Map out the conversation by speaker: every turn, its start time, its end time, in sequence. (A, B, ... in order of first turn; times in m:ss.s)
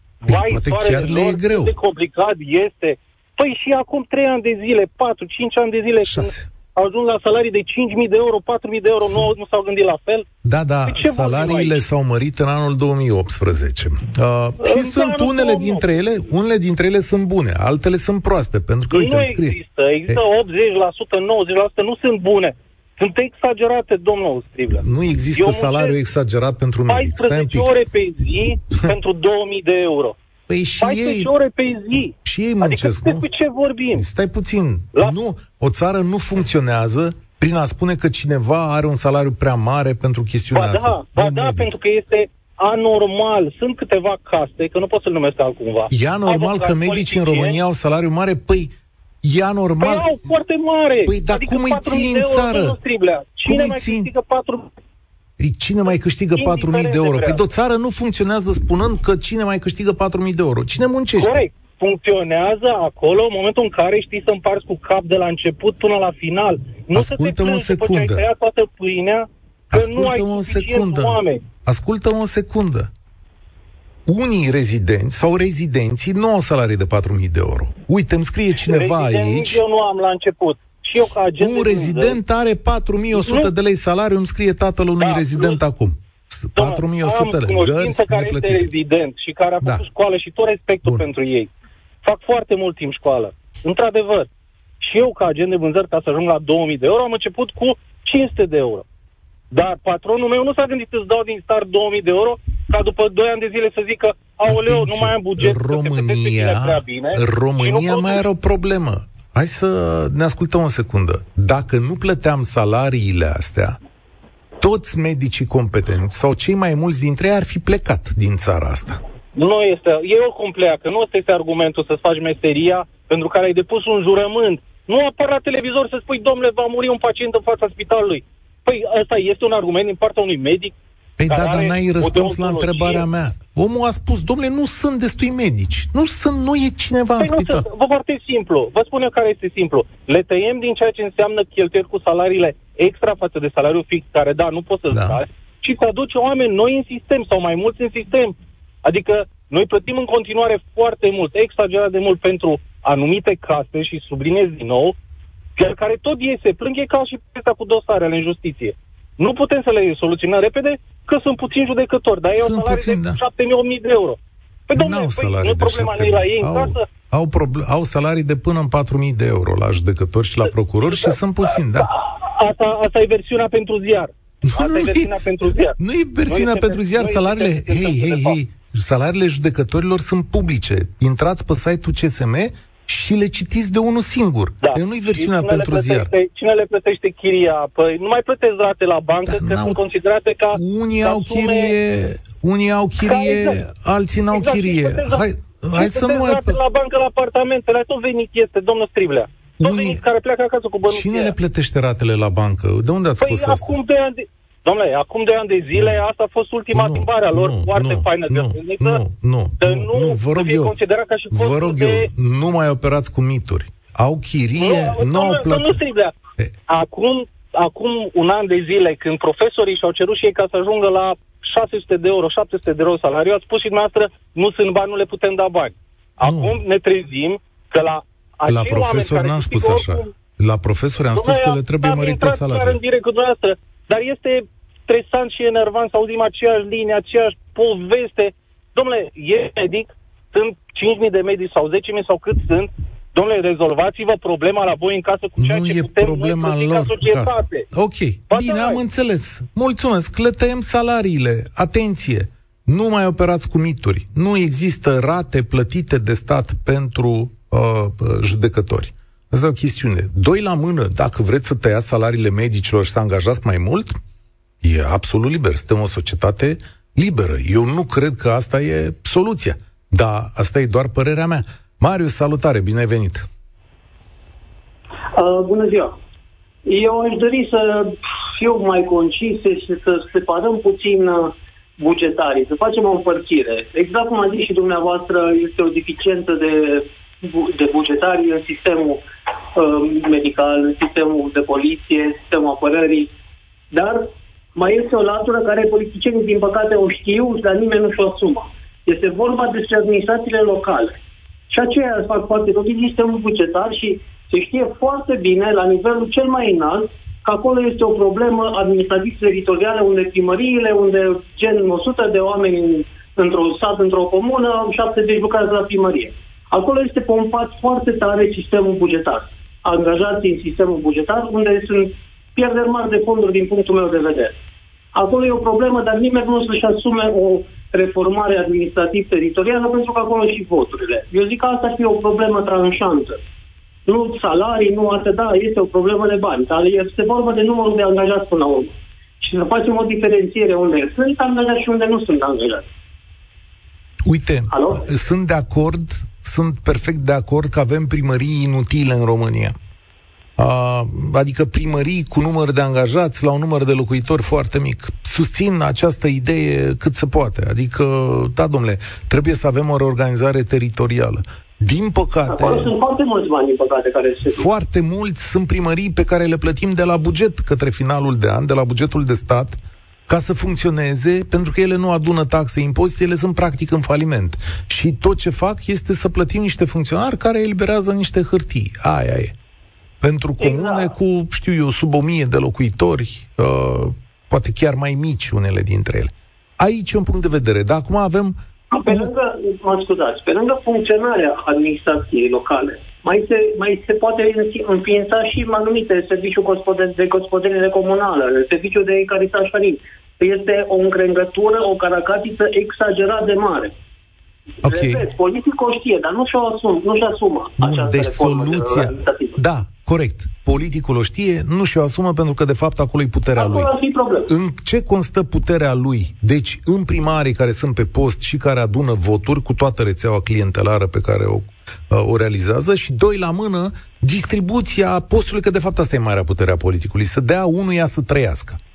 0:00.2-0:10.2 A
0:00.2-0:01.7 B
0:06.0-0:06.5 B
0:10.4-0:20.2 B
0:10.9-0:11.8 A
0:14.6-0:15.8 A
0:18.9-0:26.0 A
0:24.7-0:27.8 B
0:26.9-0:30.1 A
0:30.5-0:31.3 B
0:30.8-0:34.0 A
0:32.2-0:33.2 B
0:33.9-0:41.7 B
0:40.5-0:47.6 A
0:45.9-0:50.2 B
0:49.8-0:54.7 A
0:51.0-0:52.8 B
0:53.4-0:54.1 B
0:55.4-1:01.4 B
0:56.4-0:57.4 A
1:01.2-1:11.4 A
1:06.9-1:08.2 B
1:09.7-1:12.9 B
1:14.0-1:19.6 B
1:18.6-1:22.2 A
1:21.3-1:28.7 B
1:23.1-1:23.5 A
1:25.0-1:25.6 A
1:26.5-1:31.5 A
1:32.0-1:34.3 A
1:34.8-1:38.8 A
1:39.5-1:48.2 A
1:44.4-1:53.8 B
1:54.6-1:59.0 B
1:59.3-2:10.8 A
2:11.2-2:17.7 B
2:11.3-2:13.0 A
2:17.2-2:35.0 A
2:24.9-2:25.2 B
2:35.6-2:46.8 A
2:42.3-2:43.2 B
2:44.7-2:51.9 B
2:50.9-2:58.4 A
2:54.4-3:06.1 B
3:04.6-3:11.7 A
3:09.2-3:09.8 B
3:10.5-3:16.6 B
3:13.0-3:13.6 A
3:14.3-3:15.2 A
3:15.8-3:21.3 A
3:19.6-3:20.0 B
3:20.9-3:23.8 B
3:23.2-3:29.0 A
3:25.7-3:26.0 B
3:26.7-3:30.7 B
3:29.6-3:32.1 A
3:31.3-3:35.8 B
3:34.6-3:36.1 A
3:36.7-3:50.1 A
3:46.2-3:46.6 B
3:48.4-3:52.8 B
3:51.2-4:07.7 A
4:05.4-4:24.0 B
4:08.3-4:08.8 A
4:24.6-4:33.3 B
4:35.1-4:35.9 C
4:36.6-4:49.0 C
4:49.5-4:53.1 C
4:53.7-5:01.0 C
5:01.5-5:24.4 C
5:24.9-5:33.2 C
5:33.8-5:42.6 C
5:44.0-5:49.5 B
5:44.5-5:44.8 C
5:50.4-6:02.7 B
6:02.3-6:04.5 C
6:04.3-6:19.4 B
6:20.0-6:29.1 B
6:20.4-6:20.9 C
6:28.7-6:43.7 C
6:44.6-6:45.1 B
6:44.6-6:49.4 C
6:47.6-6:53.7 B
6:53.3-6:54.3 C
6:54.3-7:08.6 B